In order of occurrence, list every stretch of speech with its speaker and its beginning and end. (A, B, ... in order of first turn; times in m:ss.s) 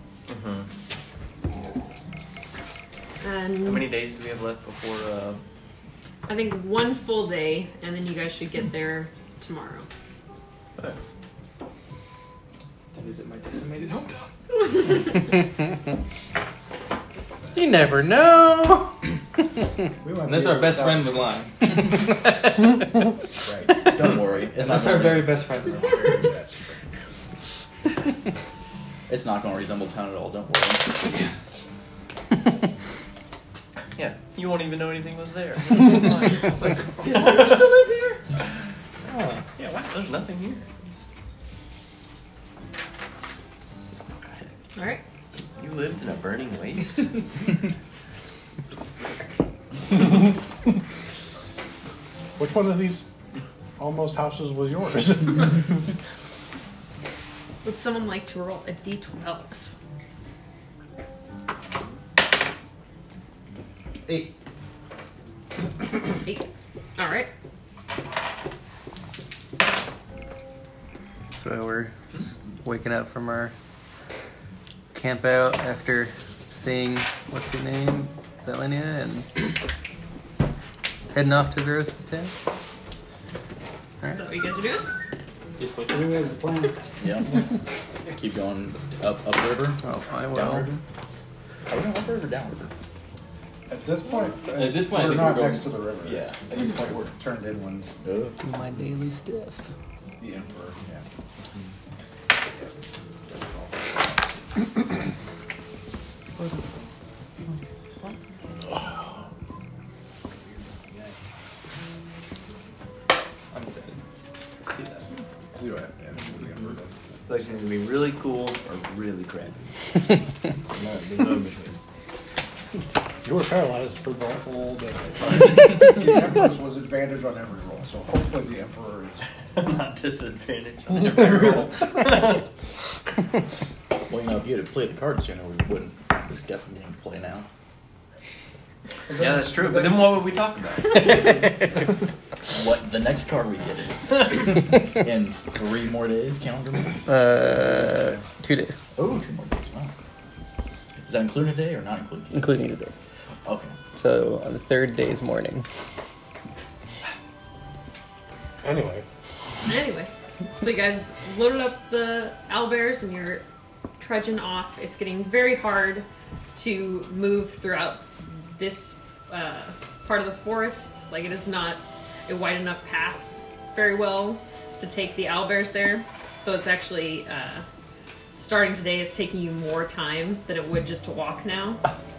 0:00.3-0:00.7 A
0:03.2-0:04.0 B
0:03.6-0:05.4 A
0:06.3-0:09.9 B
0:12.9-0:14.7 C
0:17.1-0:17.8 D
0:17.5-0:19.0 E
0:20.0-0:21.3 D
0:20.2-0:21.9 C
0:23.4-0:23.8 D
0:23.9-0:25.4 F
0:24.0-0:26.1 E
0:25.6-0:26.8 D
0:29.1-0:31.0 F
0:34.0-0:37.7 A
0:37.0-0:38.2 C
0:39.1-0:39.4 C
0:39.6-0:40.6 A
0:44.7-0:45.0 B
0:45.5-0:47.5 A
0:52.4-0:53.0 G
0:53.8-0:55.8 G
0:57.6-0:59.6 B
1:04.0-1:04.3 D
1:07.0-1:07.3 B
1:11.4-1:13.5 E
1:14.9-1:19.4 E
1:21.1-1:22.3 E
1:24.1-1:24.8 B
1:25.6-1:26.3 C
1:25.9-1:26.8 D
1:27.0-1:27.4 F
1:28.1-1:29.8 F
1:29.8-1:30.7 E
1:30.3-1:30.8 F
1:31.7-1:32.7 F
1:33.7-1:37.9 D
1:34.5-1:35.8 C
1:38.0-1:38.4 F
1:38.4-1:39.6 E
1:40.2-1:41.0 D
1:43.3-1:43.6 D
1:53.5-1:54.0 C
1:54.6-1:55.1 C
1:55.5-1:57.0 D
1:57.2-1:59.7 A
2:00.7-2:01.8 A
2:03.2-2:05.3 G
2:05.2-2:09.2 D
2:09.5-2:12.4 A
2:14.1-2:17.4 F
2:19.1-2:20.1 D
2:19.1-2:21.2 A
2:21.0-2:21.5 E
2:22.5-2:27.1 F
2:27.1-2:28.8 E
2:28.9-2:29.9 F
2:31.0-2:32.5 F
2:32.3-2:32.9 E
2:33.4-2:33.8 F
2:33.9-2:35.6 E
2:38.6-2:39.0 G
2:39.6-2:43.4 B
2:44.0-2:57.6 B
2:58.4-3:01.8 B